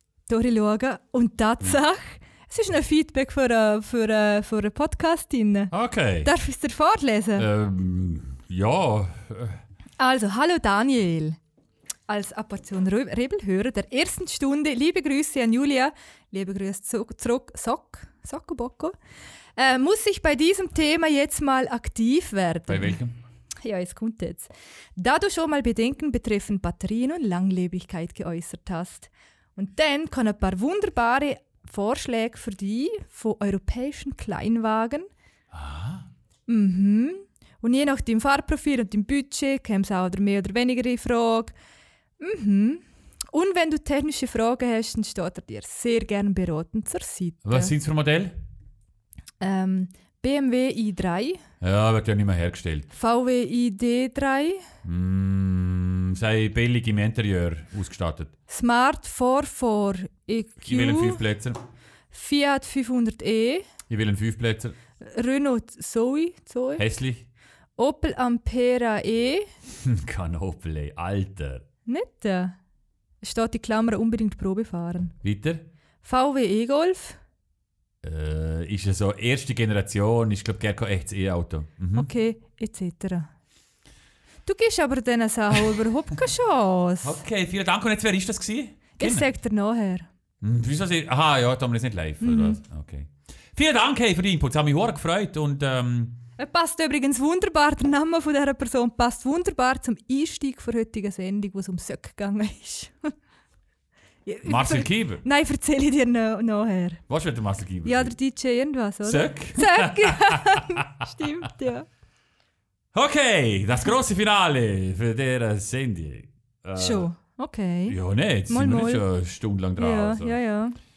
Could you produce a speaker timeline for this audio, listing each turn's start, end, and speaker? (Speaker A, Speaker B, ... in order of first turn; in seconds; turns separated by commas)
Speaker A: 0.3-5.7, Speaker B: 5.7-6.3, Speaker A: 6.2-7.5, Speaker B: 7.4-9.6, Speaker A: 10.0-11.4, Speaker A: 12.1-18.9, Speaker A: 19.6-23.0, Speaker B: 22.7-23.1, Speaker A: 23.6-35.1, Speaker B: 35.5-36.1, Speaker A: 36.5-41.5, Speaker A: 42.2-47.7, Speaker B: 47.4-48.4, Speaker A: 49.4-51.4, Speaker B: 51.6-52.9, Speaker A: 52.9-54.6, Speaker B: 54.8-58.3, Speaker A: 58.5-61.2, Speaker B: 60.6-61.6, Speaker A: 62.1-63.7, Speaker B: 63.9-64.8, Speaker A: 65.0-66.8, Speaker B: 66.8-67.2, Speaker A: 67.8-69.5, Speaker B: 69.7-71.6, Speaker A: 71.9-72.6, Speaker A: 73.2-75.1, Speaker B: 75.2-75.7, Speaker A: 76.0-77.2, Speaker B: 78.0-82.1, Speaker A: 82.0-83.3, Speaker A: 84.5-87.2, Speaker B: 87.0-89.3, Speaker A: 89.0-90.1, Speaker B: 90.4-96.2, Speaker A: 92.2-92.6, Speaker A: 96.4-103.1, Speaker A: 104.3-107.0, Speaker B: 104.5-105.2, Speaker B: 107.1-108.2, Speaker A: 107.8-111.9, Speaker B: 109.0-111.1, Speaker B: 112.9-117.1, Speaker A: 116.8-118.0, Speaker B: 117.9-120.4, Speaker A: 118.5-119.0, Speaker A: 119.8-120.8